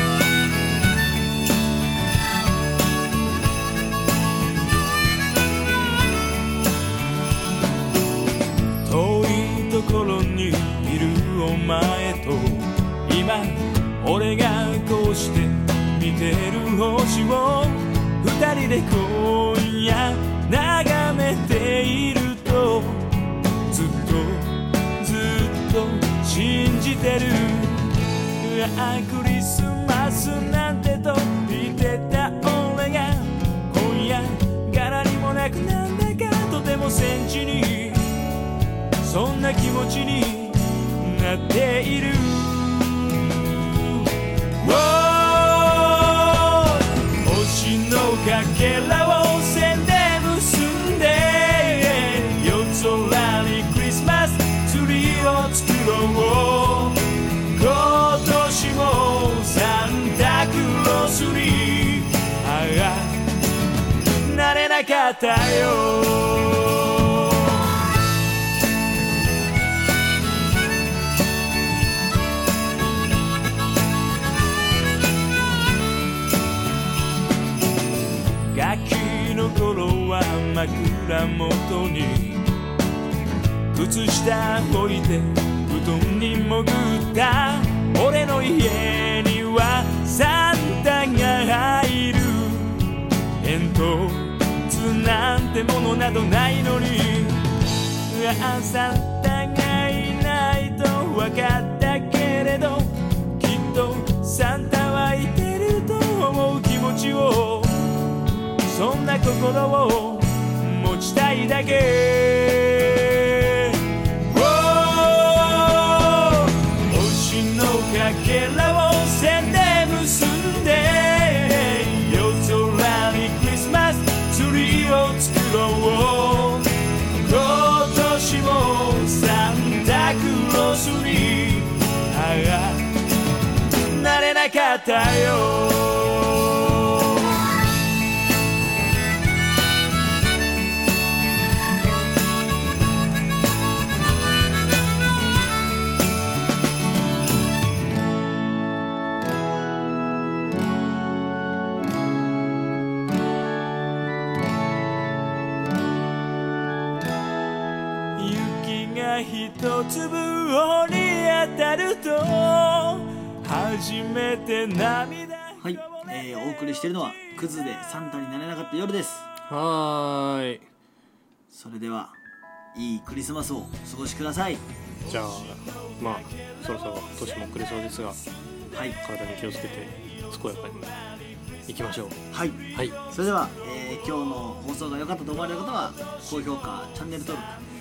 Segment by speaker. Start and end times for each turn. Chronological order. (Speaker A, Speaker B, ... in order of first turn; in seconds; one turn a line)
Speaker A: 8.8-23.1
Speaker A: 23.7-38.3
Speaker A: 39.0-63.3
Speaker A: 64.2-67.7
Speaker A: 78.5-82.5
Speaker A: 83.7-108.0
Speaker A: 108.6-133.0
Speaker A: 133.9-137.2
Speaker A: 158.2-165.7
Speaker B: 165.6-169.3
Speaker C: 169.5-170.7
Speaker B: 171.5-172.2
Speaker B: 172.7-174.6
Speaker C: 175.1-178.2
Speaker B: 178.7-179.0
Speaker C: 179.0-180.9
Speaker C: 181.7-182.2
Speaker B: 182.3-187.6
Speaker C: 182.7-183.0